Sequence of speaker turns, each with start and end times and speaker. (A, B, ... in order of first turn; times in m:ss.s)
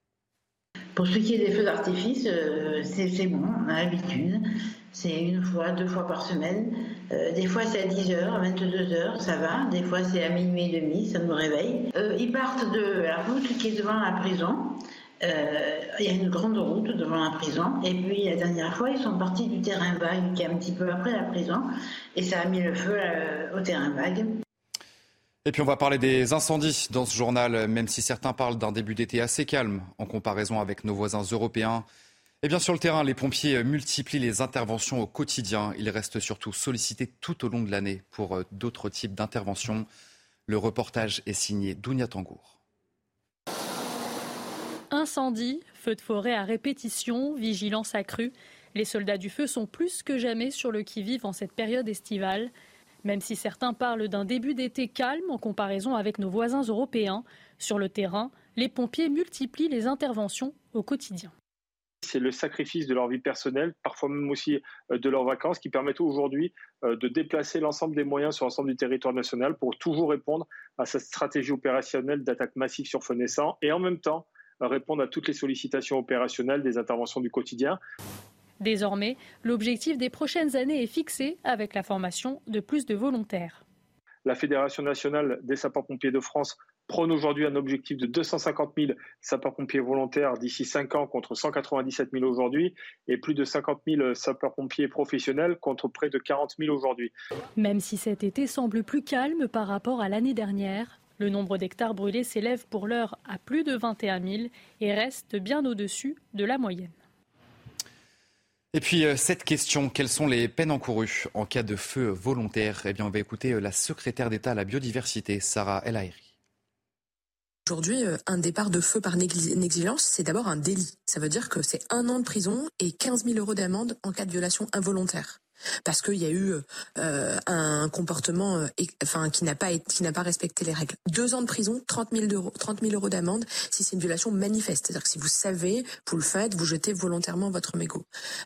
0:01.0-0:24.4 A
0:25.4-0:31.9 B
0:32.4-0:39.9 B
0:40.5-0:42.6 B
0:44.9-0:52.5 C
0:53.0-1:01.3 C
1:02.0-1:17.8 D
1:18.6-1:23.6 C
1:24.2-1:37.1 D
1:37.6-1:47.0 C
1:48.7-1:56.3 B
1:57.7-2:18.1 E